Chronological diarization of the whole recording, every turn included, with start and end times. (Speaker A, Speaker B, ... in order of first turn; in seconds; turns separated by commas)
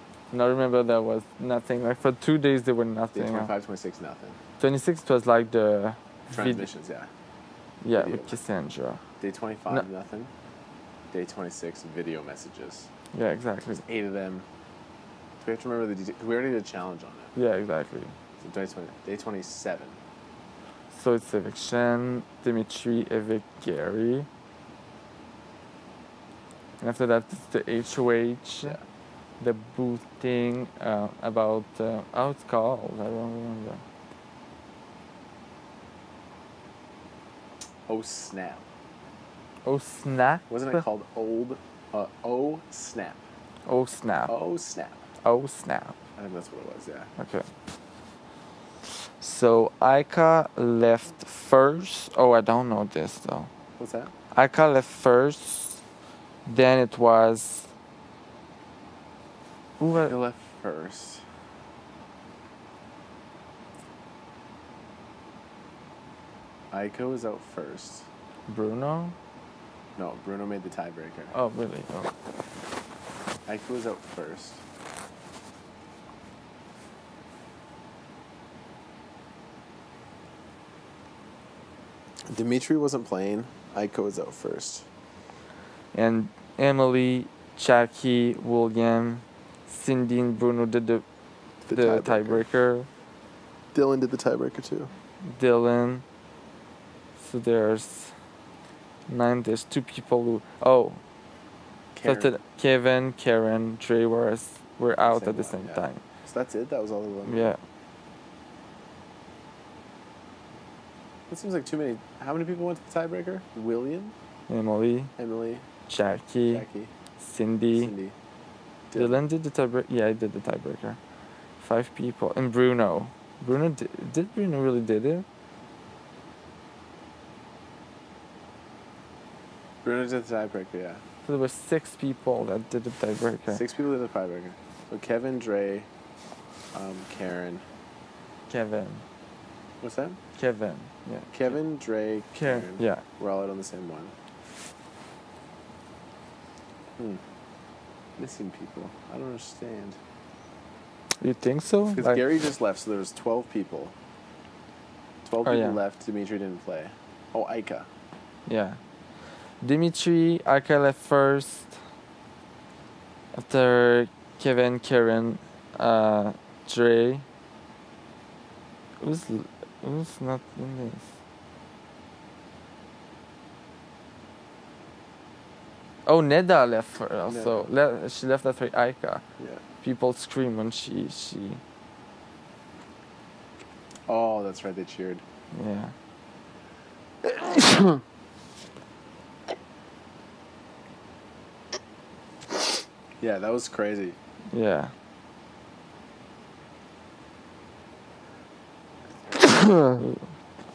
Speaker A: 0.3-3.5, Speaker B: 3.1-4.4, Speaker A: 4.6-6.7, Speaker B: 6.3-7.1, Speaker A: 7.8-9.0, Speaker B: 8.0-8.4, Speaker B: 9.2-10.3, Speaker B: 11.1-12.9, Speaker A: 13.1-13.8, Speaker B: 13.8-14.5, Speaker B: 15.4-17.3, Speaker A: 17.4-18.1, Speaker B: 18.4-20.0, Speaker A: 20.9-24.3, Speaker A: 26.8-28.8, Speaker A: 29.4-33.8, Speaker B: 37.9-38.6, Speaker A: 39.6-40.8, Speaker B: 40.5-43.2, Speaker A: 43.7-44.4, Speaker B: 44.3-45.0, Speaker A: 45.2-46.0, Speaker B: 46.2-47.1, Speaker A: 47.2-47.5, Speaker A: 48.9-53.5, Speaker B: 53.8-54.1, Speaker A: 54.3-55.8, Speaker A: 56.5-57.7, Speaker A: 59.8-60.2, Speaker B: 60.1-61.2, Speaker B: 66.7-68.1, Speaker A: 68.5-69.2, Speaker B: 70.0-71.3, Speaker A: 71.3-72.2, Speaker B: 73.5-74.6, Speaker B: 82.3-84.9, Speaker A: 85.9-91.0, Speaker B: 91.7-92.4, Speaker A: 91.7-92.9, Speaker B: 93.7-94.9, Speaker A: 95.2-96.0, Speaker A: 97.2-98.2, Speaker A: 99.1-101.0, Speaker B: 101.9-102.3, Speaker A: 102.0-106.0, Speaker B: 105.0-107.5, Speaker A: 107.2-107.6, Speaker B: 111.3-114.1, Speaker A: 114.5-115.1, Speaker B: 115.2-115.7, Speaker A: 115.9-116.7, Speaker B: 116.5-116.9, Speaker A: 117.2-117.9, Speaker B: 117.7-118.2, Speaker B: 118.9-119.2, Speaker A: 119.0-121.0, Speaker A: 121.6-125.3, Speaker B: 129.8-131.0, Speaker A: 131.2-133.6, Speaker B: 133.5-135.9, Speaker B: 136.7-137.7, Speaker A: 138.5-139.1, Speaker B: 139.8-140.2, Speaker A: 140.4-141.6, Speaker B: 141.3-144.1, Speaker A: 142.4-143.0, Speaker B: 148.2-150.0, Speaker A: 151.2-152.2, Speaker B: 151.9-153.9, Speaker B: 155.2-157.9, Speaker A: 155.4-155.8, Speaker A: 158.5-158.8, Speaker A: 159.6-161.8, Speaker A: 163.3-167.2, Speaker A: 169.0-171.1, Speaker A: 176.1-179.2, Speaker B: 177.3-177.7, Speaker B: 179.4-179.6, Speaker A: 179.8-181.6, Speaker B: 184.1-185.2, Speaker A: 185.5-185.9, Speaker B: 193.2-194.2, Speaker A: 194.5-194.9, Speaker A: 199.9-200.2